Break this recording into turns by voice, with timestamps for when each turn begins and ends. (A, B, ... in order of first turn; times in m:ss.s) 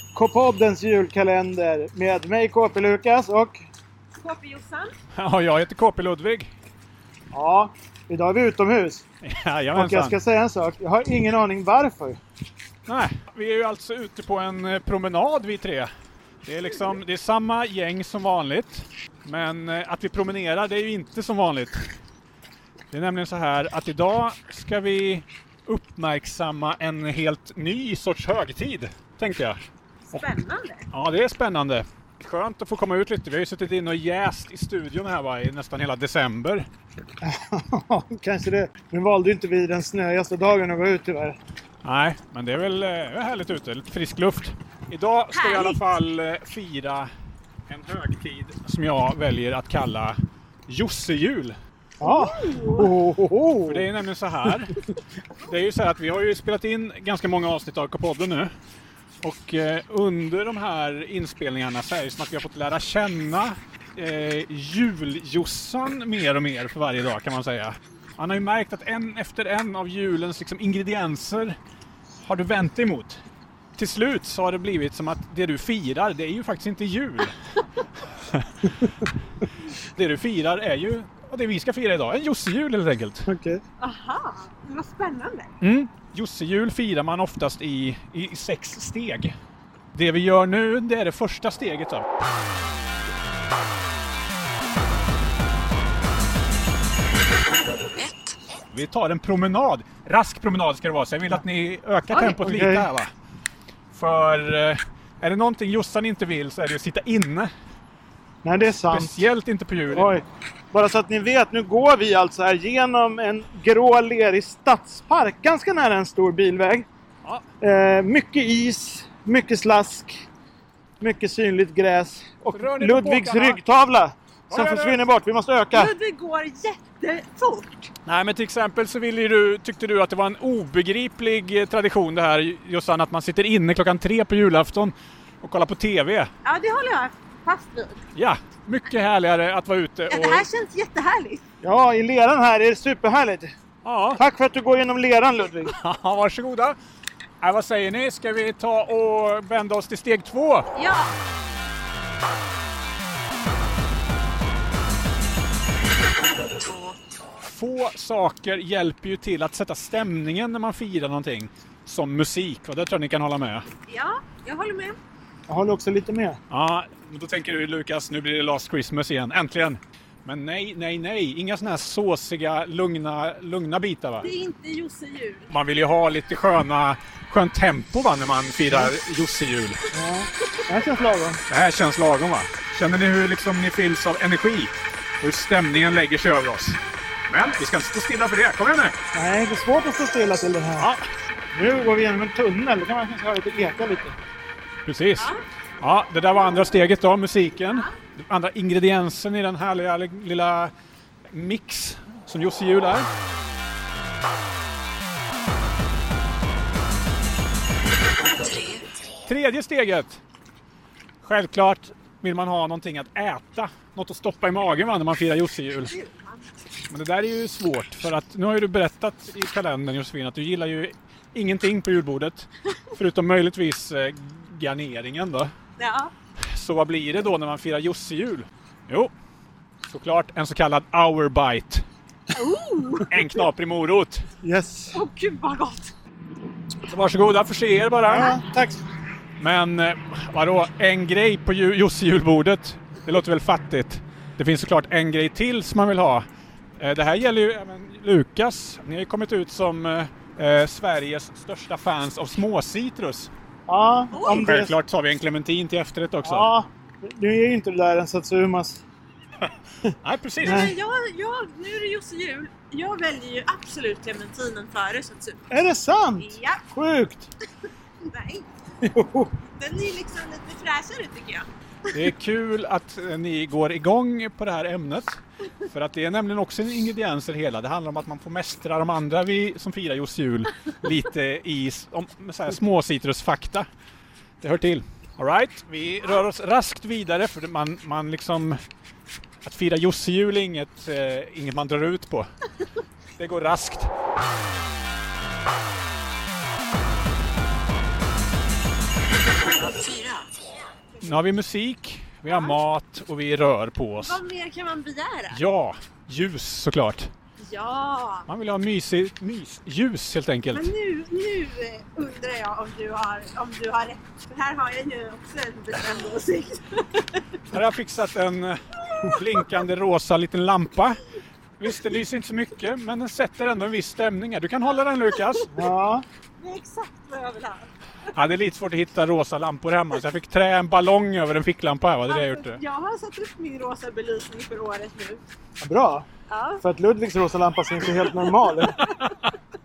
0:00.1-0:03.6 A
0:04.2-0:05.0 B
0:05.2-0:06.5 C
0:07.3-0:09.0 A
0:09.2-0:10.2 C
0:09.8-0:12.2 A
0:12.9-0:15.9 C
0:16.4-0:21.8 C
0:22.9-0:29.6 C
0:30.1-0:30.9 B
0:30.9-0:36.7 C
0:37.2-0:41.4 A
0:41.8-0:47.1 C
0:45.3-0:45.8 B
0:47.7-0:50.2 C
0:50.7-0:51.6 C
0:52.0-0:53.9 A
0:52.0-0:52.9 B
0:53.7-0:54.8 C
0:55.5-0:58.5 C
0:59.2-1:11.6 C
1:12.2-1:13.2 C
1:13.8-1:17.4 C
1:18.3-1:19.0 C
1:20.0-1:23.3 C
1:23.3-1:23.6 A
1:23.8-1:25.5 B
1:25.6-1:29.3 C
1:29.9-1:32.1 C
1:38.7-1:43.1 C
1:42.3-1:42.9 A
1:43.9-1:47.5 C
1:48.4-1:49.3 A
1:48.8-1:50.1 C
1:49.9-1:56.9 A
1:57.6-2:00.2 A
2:01.0-2:05.9 A
2:02.5-2:03.6 C
2:04.5-2:05.0 C
2:05.7-2:07.9 B
2:08.1-2:16.3 C
2:16.4-2:18.0 B
2:18.2-2:20.5 C
2:20.1-2:21.4 B
2:21.6-2:23.5 A
2:23.8-2:24.2 C
2:24.2-2:25.7 A
2:25.7-2:26.8 C
2:27.4-2:30.7 C
2:30.7-2:31.1 B
2:37.4-2:43.6 C
2:43.9-2:45.0 B
2:45.5-2:46.4 A
2:46.5-2:54.3 C
2:54.2-2:55.5 B
2:55.5-2:59.8 C
2:59.9-3:01.4 A
3:01.5-3:09.0 C
3:09.1-3:10.9 A
3:10.8-3:11.1 C
3:11.5-3:14.2 A
3:14.9-3:15.3 C
3:15.8-3:20.7 C
3:21.3-3:23.1 C
3:29.3-3:30.2 C
3:31.2-3:35.9 C
3:35.9-3:36.5 B
3:36.9-3:45.5 C
3:45.8-3:46.1 B
3:46.6-3:49.1 C
3:49.8-3:51.8 C
3:52.3-3:53.2 B
3:53.1-3:54.2 C
3:54.4-3:55.0 A
3:54.9-3:55.9 B
3:56.9-3:58.4 C
3:58.0-3:58.8 A
3:59.4-4:06.2 C
4:06.8-4:13.3 C
4:13.7-4:14.8 A
4:14.1-4:14.4 B
4:14.2-4:16.5 C
4:16.2-4:18.8 A
4:20.0-4:20.7 C
4:20.4-4:20.7 A
4:20.4-4:25.6 B
4:25.5-4:27.3 A
4:26.2-4:26.6 B
4:28.0-4:28.5 B
4:28.8-4:29.3 A
4:29.6-4:31.5 B
4:31.9-4:43.7 C
4:44.4-4:48.6 C
4:49.4-4:52.3 C
4:53.2-4:53.9 C
4:59.7-5:00.2 B
5:01.0-5:04.2 C
5:02.3-5:02.6 B
5:04.0-5:05.4 B
5:05.3-5:07.1 C
5:07.4-5:08.3 B
5:08.3-5:10.7 C
5:10.5-5:17.2 B
5:17.5-5:21.0 C
5:21.6-5:25.5 C
5:25.5-5:26.0 A
5:26.4-5:27.7 B
5:28.2-5:32.6 C
5:32.1-5:35.2 B
5:35.6-5:36.1 A
5:36.3-5:36.6 B
5:36.6-5:38.8 A
5:38.9-5:39.2 C